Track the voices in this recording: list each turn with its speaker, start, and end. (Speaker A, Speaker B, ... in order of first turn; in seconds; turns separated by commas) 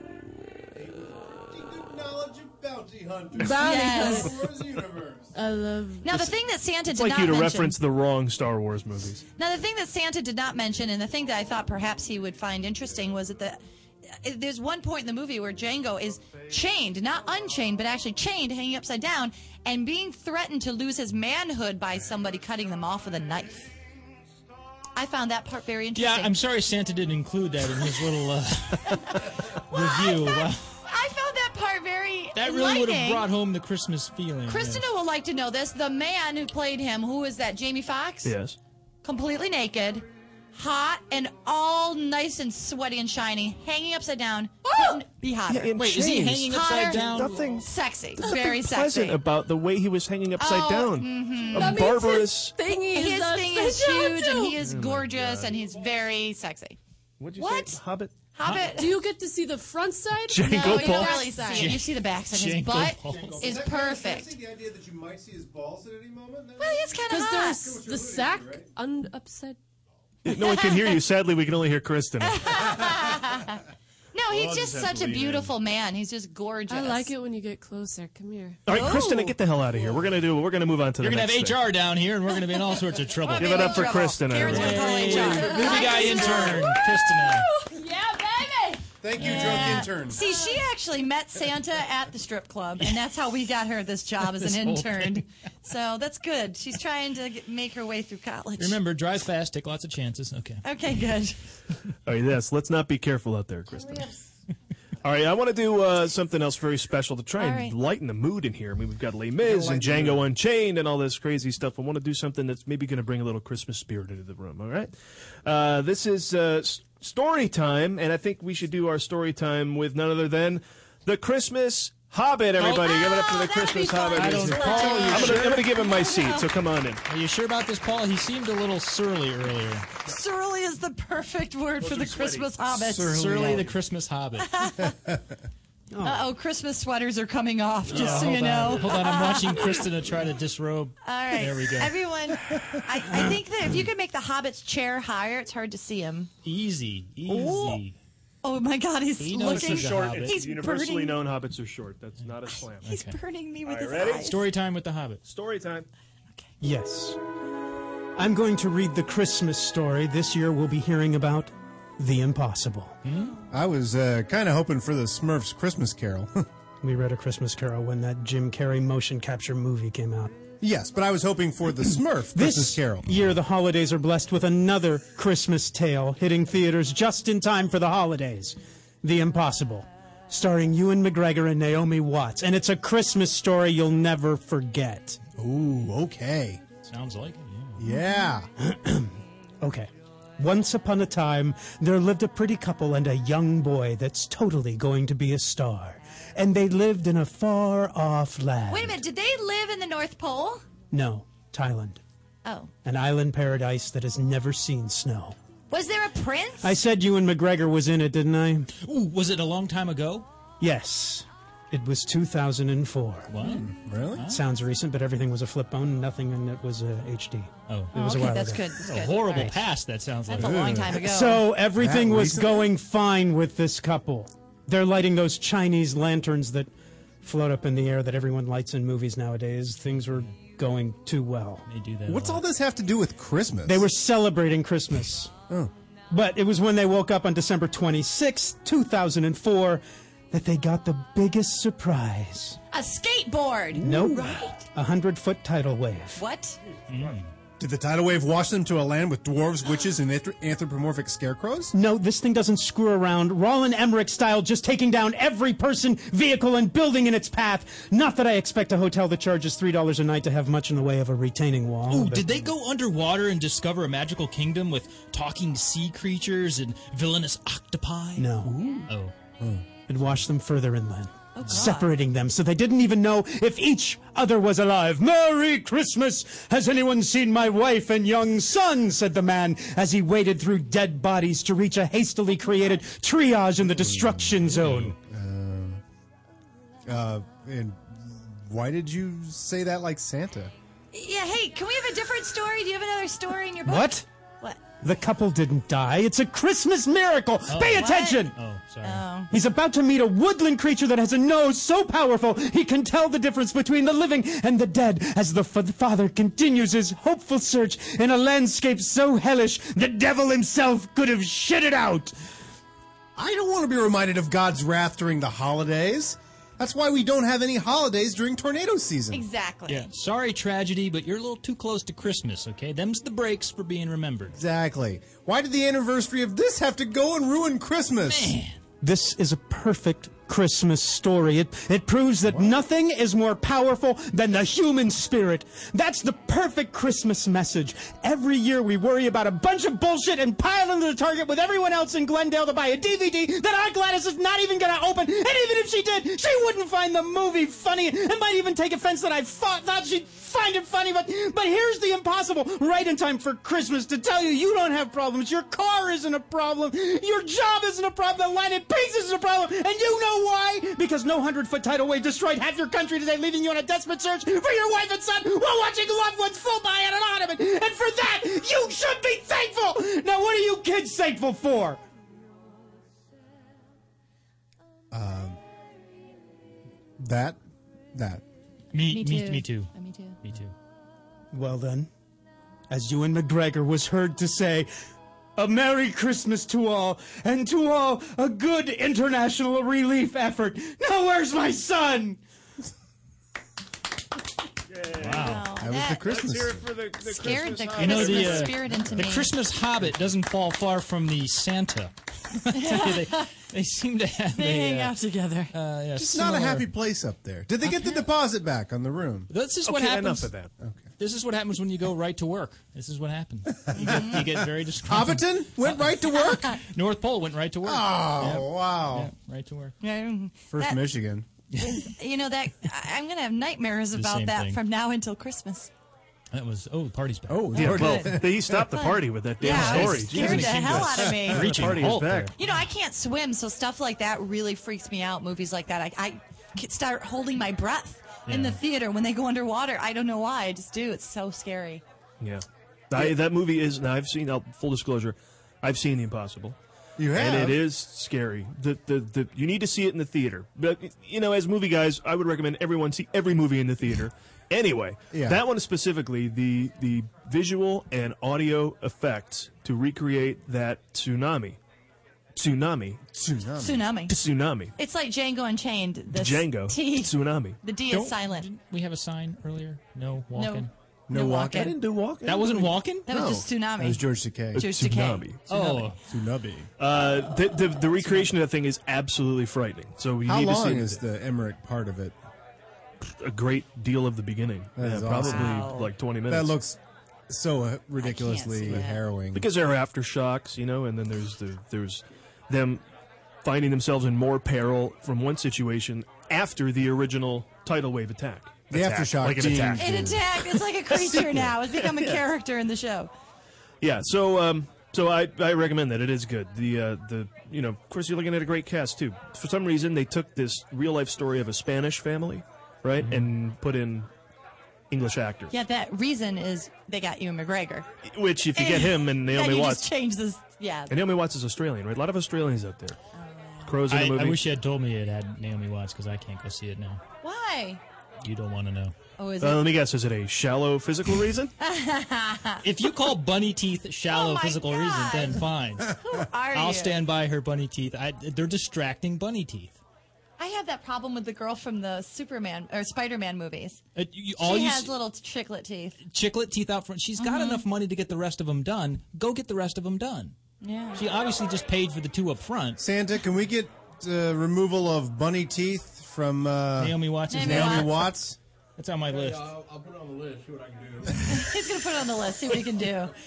Speaker A: 0.7-5.3, Speaker B: 3.4-4.3, Speaker C: 3.6-4.3, Speaker B: 5.3-6.2, Speaker C: 6.0-7.8, Speaker D: 6.1-6.3, Speaker D: 6.9-9.2, Speaker C: 9.4-23.7, Speaker C: 25.0-26.3, Speaker E: 25.9-30.7, Speaker C: 28.9-33.3, Speaker E: 32.3-34.8, Speaker C: 34.5-38.3, Speaker D: 38.2-38.6, Speaker C: 39.0-45.7, Speaker B: 44.6-45.0, Speaker D: 45.5-52.5, Speaker E: 45.7-47.4, Speaker C: 46.3-49.2, Speaker C: 50.4-52.1, Speaker B: 51.5-54.5, Speaker C: 52.9-56.8, Speaker D: 54.6-55.6, Speaker D: 57.2-58.1, Speaker C: 57.4-57.8, Speaker C: 58.3-59.1, Speaker E: 58.4-58.7, Speaker B: 58.5-61.7, Speaker D: 60.3-61.4, Speaker C: 60.5-64.3, Speaker E: 61.5-63.5, Speaker A: 63.1-68.7, Speaker C: 66.6-67.7, Speaker B: 67.1-69.6, Speaker D: 70.2-72.9, Speaker C: 70.3-70.8, Speaker C: 72.2-73.6, Speaker C: 74.1-77.1, Speaker A: 74.3-75.4, Speaker D: 74.8-75.4, Speaker B: 76.7-78.6, Speaker D: 78.7-81.7, Speaker C: 78.7-79.3, Speaker E: 81.0-87.5, Speaker C: 83.2-86.8, Speaker D: 83.4-85.5, Speaker B: 85.4-86.8, Speaker B: 87.6-88.8, Speaker A: 89.0-90.2, Speaker C: 89.2-98.8, Speaker E: 89.2-89.7, Speaker B: 90.2-90.6, Speaker E: 94.4-95.2, Speaker E: 98.6-100.6, Speaker C: 100.6-101.4, Speaker D: 102.1-104.1, Speaker D: 105.0-127.0, Speaker C: 107.4-107.8, Speaker A: 109.4-110.2, Speaker E: 122.6-122.9, Speaker C: 122.6-126.5, Speaker E: 124.2-125.7, Speaker E: 127.1-129.9, Speaker C: 130.1-133.7, Speaker D: 131.8-132.6, Speaker E: 132.8-134.6, Speaker A: 133.2-133.7, Speaker C: 134.4-134.9, Speaker C: 136.0-139.9, Speaker E: 137.9-142.0, Speaker C: 141.0-146.3, Speaker E: 146.4-148.0, Speaker C: 147.3-147.8, Speaker C: 148.4-151.2, Speaker E: 149.2-150.4, Speaker D: 149.4-152.9, Speaker E: 152.8-153.2, Speaker C: 152.9-154.4, Speaker D: 153.7-154.3, Speaker E: 154.2-155.2, Speaker D: 155.2-155.9, Speaker F: 156.6-157.2, Speaker F: 158.2-163.0, Speaker E: 163.0-163.3, Speaker A: 163.5-166.4, Speaker F: 166.8-170.4, Speaker A: 170.6-173.2, Speaker F: 172.3-185.2, Speaker A: 185.4-186.6, Speaker E: 186.9-187.8, Speaker A: 187.8-188.5, Speaker F: 188.6-199.0, Speaker C: 198.7-200.6, Speaker F: 200.9-202.0, Speaker C: 202.4-202.7, Speaker F: 202.8-205.4, Speaker C: 205.7-206.8, Speaker F: 206.6-208.7, Speaker E: 208.8-210.3, Speaker F: 210.6-213.3, Speaker E: 213.3-214.4, Speaker A: 213.4-214.3, Speaker F: 214.2-218.8, Speaker E: 217.7-218.0, Speaker C: 217.9-219.6, Speaker E: 218.8-220.9, Speaker C: 220.3-221.5, Speaker A: 220.4-221.0, Speaker F: 220.9-226.7, Speaker A: 221.7-222.7, Speaker F: 227.2-231.7, Speaker E: 231.7-232.4, Speaker A: 232.1-233.9, Speaker F: 233.7-235.3, Speaker F: 236.1-242.6, Speaker C: 242.7-244.6, Speaker F: 243.8-246.2, Speaker C: 246.2-246.6, Speaker E: 246.9-247.3, Speaker A: 247.6-251.8, Speaker F: 251.7-262.5, Speaker E: 261.9-268.3, Speaker F: 268.2-268.8, Speaker E: 268.9-269.1, Speaker A: 269.4-269.6, Speaker F: 269.9-284.9, Speaker C: 271.4-271.9, Speaker A: 283.6-285.8, Speaker E: 284.6-284.9, Speaker A: 286.9-290.5, Speaker C: 290.9-294.6, Speaker F: 293.6-294.1, Speaker F: 294.8-298.3, Speaker E: 297.5-299.1, Speaker C: 297.8-298.3, Speaker C: 298.8-299.3, Speaker F: 299.3-312.1, Speaker A: 313.2-319.2, Speaker C: 319.1-319.9, Speaker E: 319.7-324.4, Speaker A: 324.3-328.4, Speaker E: 328.1-328.6, Speaker F: 328.8-371.8, Speaker A: 332.3-332.6, Speaker A: 374.9-375.4, Speaker A: 377.0-377.4, Speaker A: 377.9-378.2, Speaker E: 378.7-380.6, Speaker C: 378.9-380.2, Speaker F: 381.3-381.9, Speaker F: 382.7-384.7, Speaker F: 385.4-392.2, Speaker D: 394.7-395.3, Speaker E: 395.0-395.5, Speaker C: 395.1-396.2, Speaker A: 395.6-396.7, Speaker D: 396.0-398.7, Speaker C: 397.0-399.4, Speaker E: 397.8-404.9, Speaker C: 402.5-403.3, Speaker C: 404.3-405.5, Speaker E: 405.5-406.7, Speaker A: 406.0-409.3, Speaker E: 409.3-410.3, Speaker D: 409.7-410.5, Speaker E: 411.0-416.1, Speaker A: 413.7-416.6, Speaker C: 413.8-414.2, Speaker C: 416.2-416.5, Speaker E: 416.7-419.8, Speaker A: 417.6-419.1, Speaker C: 419.8-420.9, Speaker A: 420.5-421.3, Speaker E: 421.5-421.9, Speaker C: 421.6-425.7, Speaker E: 423.9-424.6, Speaker E: 426.3-428.0, Speaker A: 427.3-428.7, Speaker D: 427.6-432.3, Speaker C: 427.8-428.1, Speaker C: 428.7-431.8, Speaker E: 429.4-432.5, Speaker C: 432.4-441.8, Speaker E: 438.3-438.6, Speaker D: 442.2-446.6, Speaker A: 447.0-447.6, Speaker D: 447.1-461.6, Speaker A: 455.1-455.4, Speaker D: 462.4-463.0, Speaker A: 463.1-463.9, Speaker C: 463.6-464.2, Speaker D: 464.1-464.7, Speaker C: 464.8-468.5, Speaker D: 466.1-467.6, Speaker E: 467.9-470.7, Speaker C: 470.4-471.8, Speaker A: 471.1-471.8, Speaker D: 471.5-473.4, Speaker E: 472.2-473.1, Speaker C: 473.1-475.9, Speaker A: 473.8-474.6, Speaker D: 474.6-475.4, Speaker E: 475.5-476.0, Speaker A: 476.1-476.7, Speaker D: 476.8-481.0, Speaker A: 480.3-482.2, Speaker D: 483.1-486.5, Speaker A: 484.8-485.7, Speaker C: 485.2-485.9, Speaker A: 486.3-489.5, Speaker C: 488.0-489.0, Speaker D: 489.3-492.8, Speaker D: 493.4-500.2, Speaker A: 498.7-500.4, Speaker C: 499.8-503.1, Speaker D: 500.9-502.2, Speaker A: 501.0-501.4, Speaker D: 503.8-514.1, Speaker E: 513.0-513.3, Speaker D: 514.9-515.5, Speaker C: 515.5-517.9, Speaker D: 518.1-519.9, Speaker C: 518.5-521.0, Speaker D: 520.9-523.0, Speaker C: 523.1-523.8, Speaker D: 523.6-524.4, Speaker E: 523.9-527.0, Speaker C: 527.2-527.8, Speaker E: 528.2-529.0, Speaker C: 529.2-529.8, Speaker D: 529.4-531.5, Speaker C: 531.6-532.6, Speaker E: 532.6-536.0, Speaker C: 534.1-537.0, Speaker E: 536.5-539.8, Speaker C: 540.4-543.8, Speaker E: 544.0-544.9, Speaker C: 544.4-546.0, Speaker E: 546.0-550.3, Speaker C: 547.2-547.6, Speaker C: 550.6-551.0, Speaker E: 551.0-552.8, Speaker A: 552.8-558.4, Speaker E: 556.8-558.1, Speaker C: 557.3-558.1, Speaker E: 558.8-559.5, Speaker G: 559.1-561.5, Speaker C: 561.2-563.1